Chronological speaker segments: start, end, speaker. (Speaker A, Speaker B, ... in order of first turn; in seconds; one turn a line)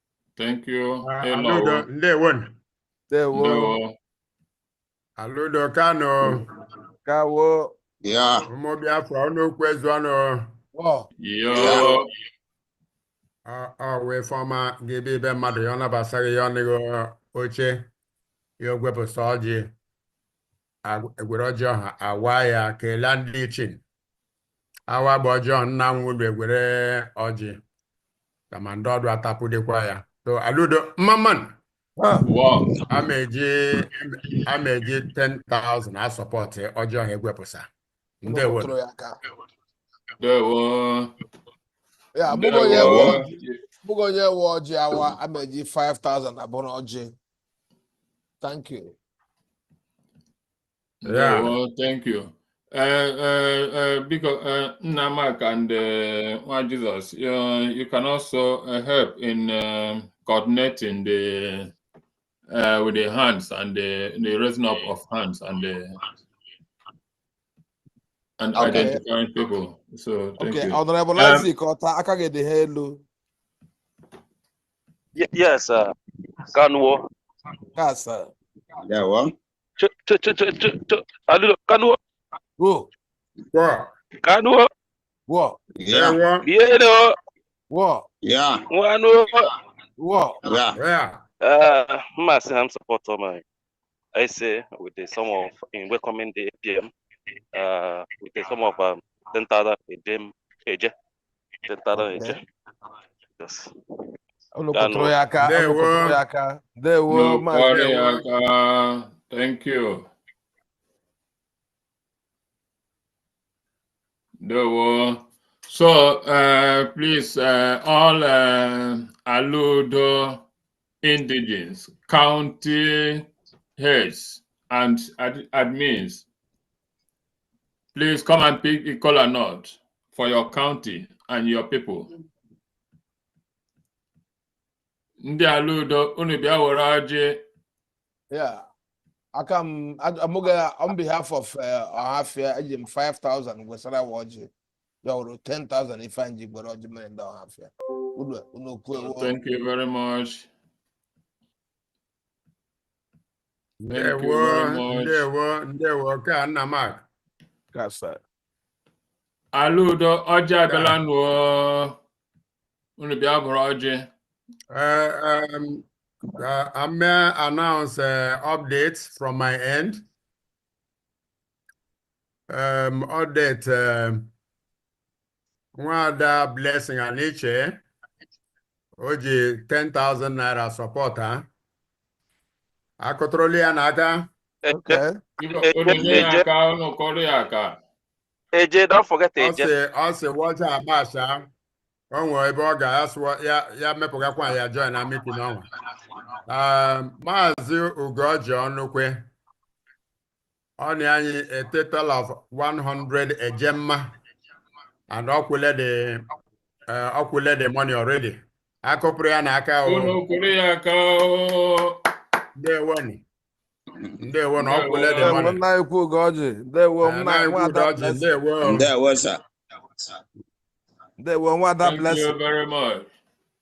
Speaker A: 0.3-1.9
Speaker B: 1.0-2.5
Speaker C: 3.1-3.8
Speaker A: 3.3-3.9
Speaker B: 5.2-6.4
Speaker C: 7.0-7.7
Speaker D: 8.0-8.4
Speaker B: 8.5-10.5
Speaker C: 10.7-11.1
Speaker A: 11.2-12.0
Speaker D: 11.5-11.9
Speaker B: 13.4-17.8
Speaker B: 18.6-19.7
Speaker B: 20.8-23.8
Speaker B: 24.9-27.6
Speaker B: 28.5-31.5
Speaker C: 32.0-32.3
Speaker A: 32.2-32.8
Speaker B: 32.9-37.7
Speaker B: 38.2-38.7
Speaker C: 38.2-39.2
Speaker A: 40.2-41.1
Speaker C: 42.1-47.1
Speaker A: 42.3-43.5
Speaker D: 42.7-43.1
Speaker C: 48.4-49.0
Speaker A: 51.0-61.7
Speaker B: 51.0-51.5
Speaker A: 62.5-66.0
Speaker A: 68.4-71.5
Speaker C: 68.5-69.0
Speaker C: 70.4-73.0
Speaker E: 75.2-75.9
Speaker E: 76.5-77.0
Speaker C: 77.8-78.3
Speaker D: 78.8-79.3
Speaker E: 79.8-82.0
Speaker C: 82.6-82.9
Speaker B: 83.5-83.9
Speaker E: 84.2-84.7
Speaker C: 85.3-85.6
Speaker D: 85.8-86.2
Speaker B: 85.9-86.5
Speaker E: 86.4-87.1
Speaker C: 87.7-88.1
Speaker D: 88.2-88.6
Speaker E: 88.7-89.5
Speaker C: 90.0-90.4
Speaker D: 90.4-90.8
Speaker B: 90.7-91.2
Speaker E: 91.4-93.4
Speaker E: 94.2-96.9
Speaker E: 97.5-100.9
Speaker E: 101.7-102.4
Speaker C: 101.9-102.4
Speaker E: 103.4-103.7
Speaker C: 104.5-108.2
Speaker E: 104.7-105.1
Speaker B: 105.4-106.2
Speaker A: 107.1-110.1
Speaker A: 114.4-120.4
Speaker A: 121.0-126.2
Speaker A: 127.9-132.1
Speaker A: 135.2-137.4
Speaker C: 138.3-138.6
Speaker C: 139.3-144.5
Speaker C: 145.0-149.3
Speaker A: 148.9-150.5
Speaker B: 153.8-157.0
Speaker A: 153.9-155.2
Speaker C: 157.7-158.2
Speaker A: 159.5-161.9
Speaker B: 160.7-160.9
Speaker A: 163.0-164.1
Speaker B: 164.7-165.8
Speaker B: 166.4-170.0
Speaker B: 172.5-174.3
Speaker B: 175.8-177.8
Speaker B: 179.0-181.5
Speaker B: 183.0-184.2
Speaker E: 184.6-185.0
Speaker C: 184.7-185.2
Speaker A: 185.4-187.8
Speaker E: 185.6-186.4
Speaker E: 188.5-189.7
Speaker B: 189.4-191.5
Speaker B: 192.1-195.6
Speaker B: 196.5-199.2
Speaker B: 200.8-204.0
Speaker B: 205.1-206.2
Speaker B: 206.9-210.2
Speaker A: 209.8-212.0
Speaker B: 212.6-213.2
Speaker B: 214.2-215.6
Speaker A: 214.6-215.5
Speaker C: 215.2-218.2
Speaker B: 217.0-218.9
Speaker D: 218.6-219.4
Speaker C: 221.2-222.3
Speaker A: 221.8-223.1